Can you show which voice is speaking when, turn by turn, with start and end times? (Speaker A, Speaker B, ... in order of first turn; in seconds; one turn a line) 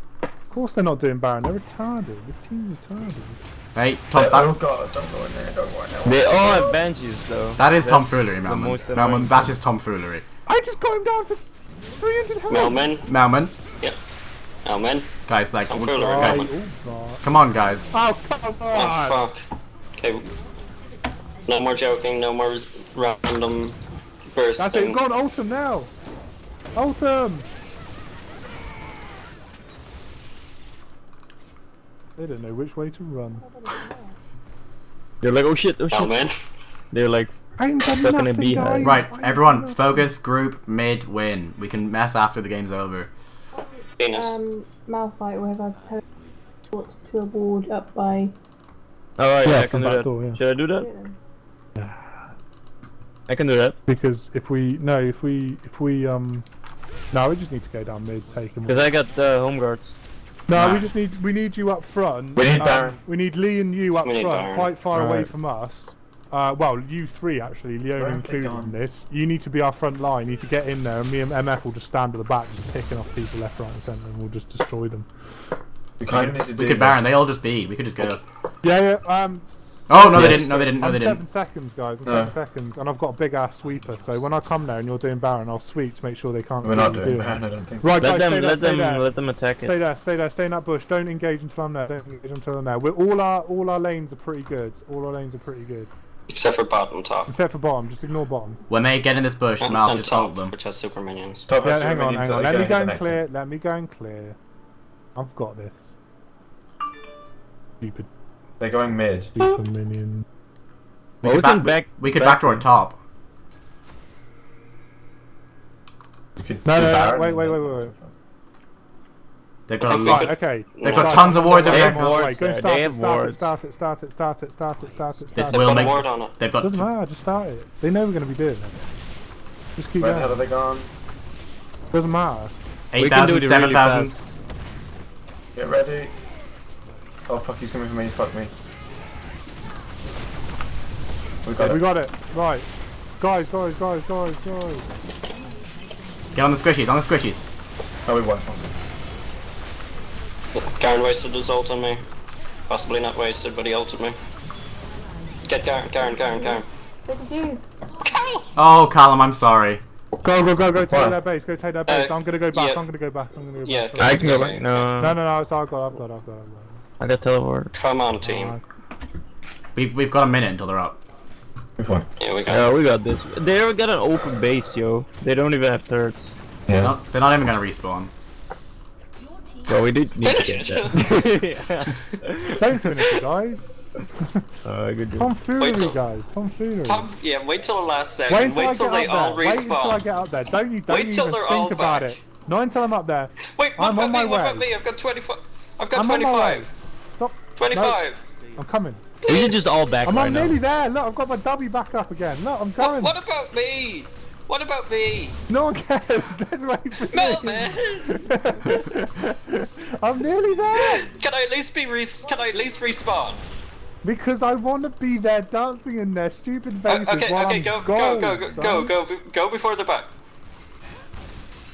Speaker A: 0.5-3.4
Speaker B: 3.8-4.6
Speaker C: 4.1-6.7
Speaker D: 6.0-9.6
Speaker B: 7.6-10.2
Speaker A: 10.5-11.4
Speaker A: 11.9-12.9
Speaker E: 12.5-13.1
Speaker B: 13.1-13.5
Speaker E: 14.7-15.1
Speaker B: 15.3-16.5
Speaker E: 15.7-16.5
Speaker A: 16.0-17.2
Speaker B: 17.2-17.9
Speaker A: 17.9-19.3
Speaker E: 18.7-19.4
Speaker E: 20.0-20.3
Speaker E: 21.5-23.8
Speaker E: 24.3-25.0
Speaker A: 24.6-25.9
Speaker A: 26.8-27.5
Speaker A: 32.2-33.4
Speaker F: 33.4-34.2
Speaker D: 35.2-36.2
Speaker E: 35.9-36.4
Speaker D: 36.9-37.3
Speaker A: 37.6-40.1
Speaker D: 38.0-39.0
Speaker B: 38.8-43.1
Speaker F: 43.5-46.0
Speaker E: 44.0-44.4
Speaker F: 46.7-48.3
Speaker D: 49.2-50.9
Speaker A: 49.4-50.4
Speaker F: 50.8-51.1
Speaker A: 51.8-52.1
Speaker D: 53.3-53.8
Speaker A: 53.9-56.5
Speaker A: 57.1-58.9
Speaker D: 58.7-60.0
Speaker A: 60.5-75.1
Speaker B: 60.5-60.9
Speaker C: 62.4-63.0
Speaker E: 64.0-64.7
Speaker D: 64.9-65.3
Speaker C: 68.0-68.8
Speaker C: 76.0-77.1
Speaker B: 76.1-78.2
Speaker A: 78.6-89.1
Speaker B: 79.9-81.2
Speaker D: 80.2-80.5
Speaker C: 82.0-82.3
Speaker C: 86.6-88.2
Speaker D: 88.0-89.7
Speaker A: 89.6-95.9
Speaker E: 96.3-97.3
Speaker A: 97.3-98.6
Speaker B: 98.7-100.5
Speaker E: 99.6-101.5
Speaker C: 101.5-103.3
Speaker A: 101.6-104.4
Speaker A: 105.2-106.0
Speaker A: 107.8-108.1
Speaker C: 108.6-109.3
Speaker A: 109.4-110.2
Speaker B: 111.2-113.0
Speaker D: 111.2-112.6
Speaker C: 116.4-118.1
Speaker A: 116.6-118.0
Speaker B: 119.7-122.1
Speaker E: 119.8-121.7
Speaker A: 119.9-126.1
Speaker D: 121.7-123.5
Speaker B: 125.3-126.9
Speaker E: 125.5-126.4
Speaker A: 126.6-128.8
Speaker A: 129.8-130.4
Speaker C: 130.0-130.9
Speaker A: 131.9-132.5
Speaker B: 132.9-134.2
Speaker D: 133.0-134.2
Speaker C: 135.6-136.1
Speaker C: 137.3-138.5
Speaker C: 141.4-141.8
Speaker A: 141.6-142.7
Speaker A: 143.2-144.9
Speaker B: 146.3-147.4
Speaker C: 148.1-148.7
Speaker E: 150.6-152.0
Speaker E: 152.7-154.2
Speaker E: 155.5-156.7
Speaker F: 156.2-157.7
Speaker E: 158.1-158.4
Speaker B: 158.6-159.8
Speaker A: 160.2-166.8
Speaker C: 160.8-161.2
Speaker E: 161.9-162.9
Speaker E: 163.6-164.8
Speaker D: 164.0-165.2
Speaker D: 167.0-167.7
Speaker E: 167.8-168.6
Speaker A: 168.2-168.6
Speaker B: 169.8-171.0
Speaker C: 171.8-172.1
Speaker E: 172.2-172.7
Speaker D: 172.5-176.3
Speaker C: 176.7-176.9
Speaker B: 176.8-178.1
Speaker D: 179.7-182.7
Speaker E: 180.2-181.4
Speaker A: 182.4-183.7
Speaker D: 184.7-185.3
Speaker A: 185.2-187.1
Speaker E: 185.6-186.0
Speaker E: 186.8-190.0
Speaker A: 188.3-194.7
Speaker E: 190.9-192.2
Speaker E: 193.4-196.7
Speaker A: 195.9-198.0
Speaker E: 197.6-198.2
Speaker A: 198.6-199.1
Speaker E: 199.2-199.7
Speaker D: 199.2-200.6
Speaker A: 200.0-203.1
Speaker E: 202.8-205.4
Speaker A: 205.5-211.1
Speaker E: 207.1-208.1
Speaker F: 207.8-208.8
Speaker E: 210.8-213.4
Speaker A: 214.0-219.1
Speaker E: 216.9-220.1